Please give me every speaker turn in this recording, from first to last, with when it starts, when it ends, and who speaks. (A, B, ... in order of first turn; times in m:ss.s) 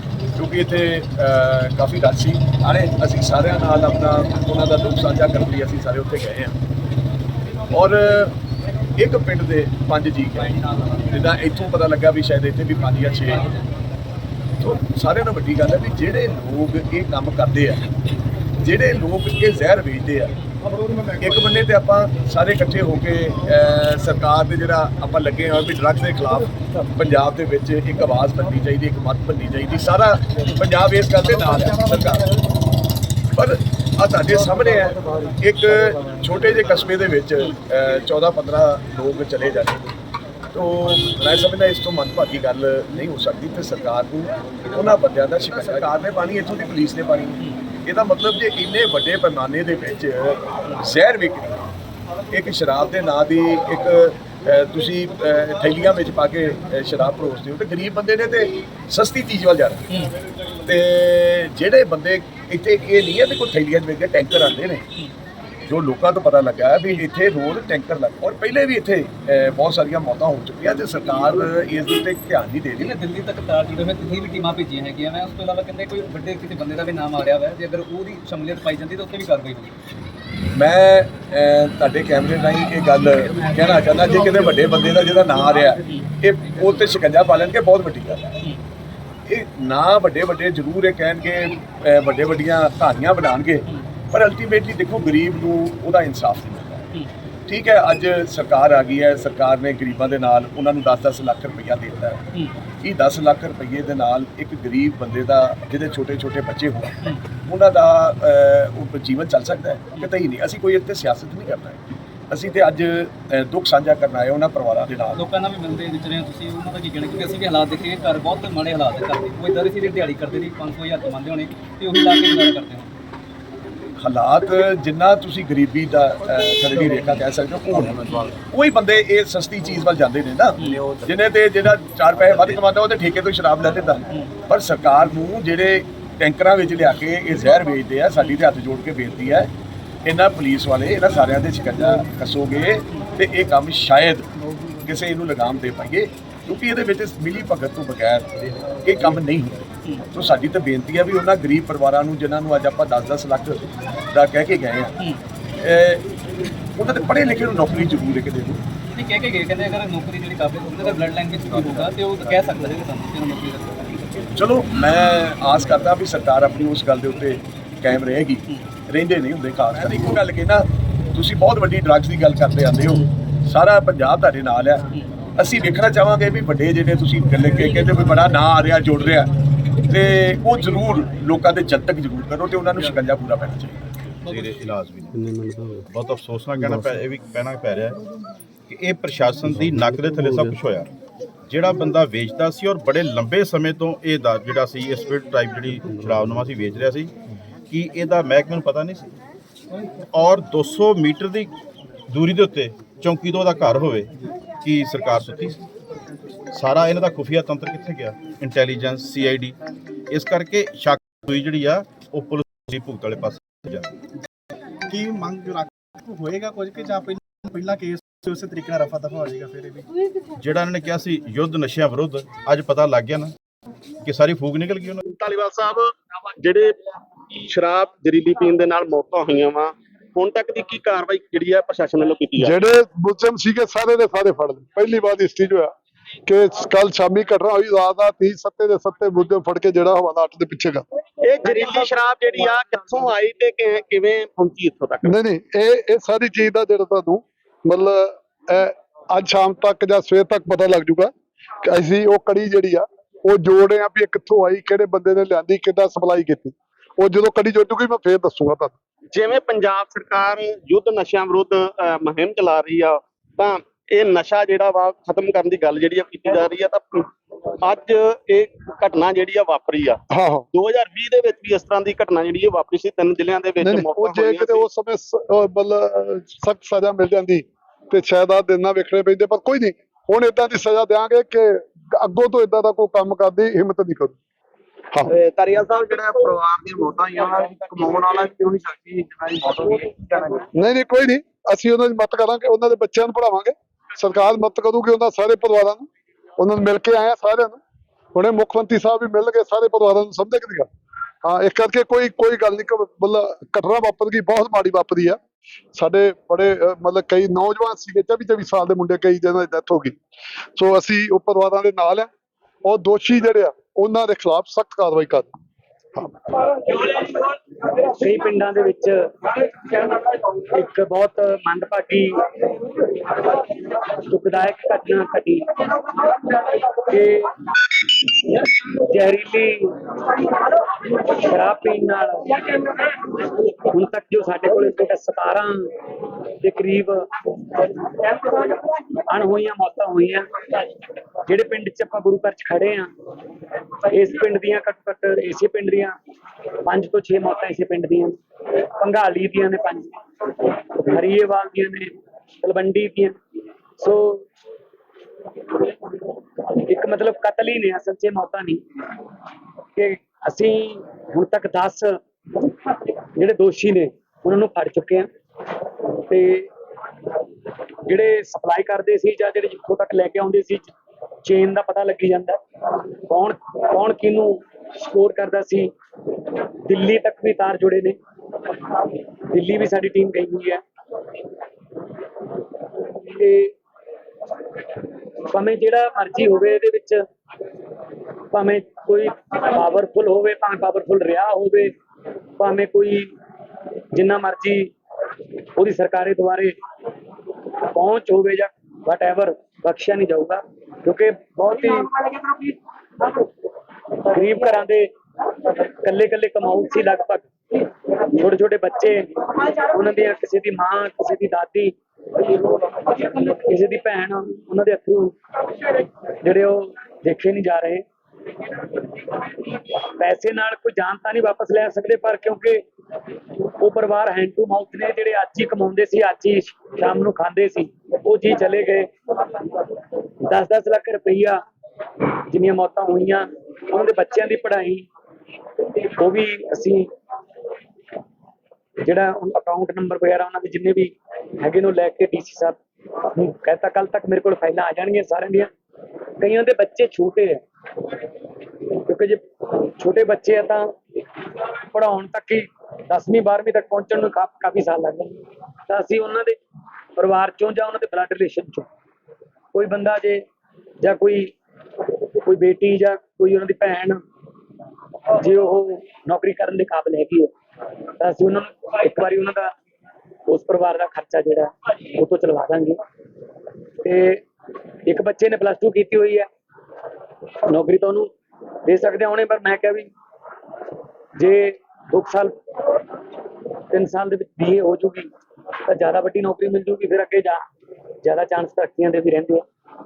0:00.4-0:06.6 A
0:07.7-0:08.3 A
0:09.0-0:10.5 A
0:11.0-0:13.5 A
0:14.6-0:17.8 A
0:18.6-0:20.3 A
0:21.2-0:32.3 A
0:33.3-0:39.9 A
0:40.5-0:51.6 A
0:52.3-0:59.8 A
1:00.6-1:04.8 A
1:05.7-1:12.9 A
1:12.8-1:19.7 B
1:20.5-1:28.4 A
1:29.2-1:36.9 A
1:37.5-1:42.2 A
1:42.8-1:55.2 A
1:55.2-2:02.9 B
2:04.0-2:19.5 A
2:10.6-2:10.9 B
2:20.1-2:24.3 A
2:24.8-2:35.0 A
2:35.6-2:36.1 A
2:36.8-2:38.6 A
2:38.9-2:44.1 B
2:44.3-2:54.8 A
2:55.4-2:59.3 A
2:59.9-3:03.8 A
3:04.2-3:05.3 C
3:05.9-3:08.0 C
3:08.7-3:10.9 C
3:11.5-3:17.1 C
3:17.7-3:19.1 C
3:20.1-3:21.5 C
3:22.1-3:25.6 C
3:26.5-3:29.6 C
3:30.1-3:33.9 C
3:34.9-3:39.8 D
3:40.4-3:43.3 C
3:44.0-3:45.0 C
3:45.1-3:52.6 E
3:52.4-3:55.7 F
3:56.3-4:00.8 F
4:01.2-4:05.2 E
4:05.0-4:11.1 F
4:11.6-4:18.7 F
4:19.1-4:27.1 E
4:27.6-4:30.0 E
4:30.1-4:30.4 F
4:30.5-4:34.7 E
4:33.6-4:44.2 F
4:45.1-4:50.4 E
4:50.5-4:55.9 F
4:56.4-4:57.6 F
4:58.2-5:00.7 F
5:01.2-5:05.2 F
5:05.7-5:10.0 F
5:10.6-5:12.1 F
5:12.6-5:15.3 F
5:16.7-5:22.3 G
5:23.9-5:25.8 G
5:26.4-5:27.4 G
5:28.1-5:29.7 G
5:30.8-5:35.7 G
5:36.4-5:37.0 G
5:37.6-5:42.9 G
5:43.8-5:45.9 G
5:46.6-5:53.2 G
5:53.8-5:54.2 G
5:56.4-5:58.6 G
5:59.8-6:01.9 G
6:03.2-6:05.1 G
6:06.1-6:06.5 G
6:07.9-6:10.7 G
6:11.2-6:12.4 G
6:13.1-6:15.7 G
6:16.6-6:18.0 G
6:19.3-6:20.6 G
6:22.9-6:23.5 G
6:25.3-6:27.0 G
6:28.3-6:31.7 G
6:32.4-6:33.1 G
6:33.9-6:34.7 G
6:35.6-6:36.5 G
6:37.7-6:42.2 G
6:44.0-6:44.9 G
6:45.5-6:47.3 G
6:48.1-6:51.7 G
6:52.9-6:57.8 G
6:59.6-7:02.6 G
7:03.6-7:08.9 G
7:10.2-7:11.4 G
7:12.3-7:14.9 G
7:15.8-7:16.9 G
7:18.8-7:22.6 G
7:23.1-7:25.5 G
7:26.2-7:27.4 G
7:28.9-7:30.6 G
7:31.7-7:35.2 G
7:35.7-7:36.4 G
7:37.0-7:38.7 G
7:39.5-7:40.2 G
7:40.8-7:41.3 G
7:42.2-7:44.0 G
7:45.1-7:47.3 G
7:48.0-7:49.5 G
7:50.3-7:52.8 G
7:53.8-7:54.2 G
7:54.9-7:56.3 G
7:57.4-7:58.1 G
7:58.7-7:59.9 G
8:01.2-8:02.3 G
8:03.7-8:05.1 G
8:05.6-8:07.4 G
8:08.0-8:09.4 G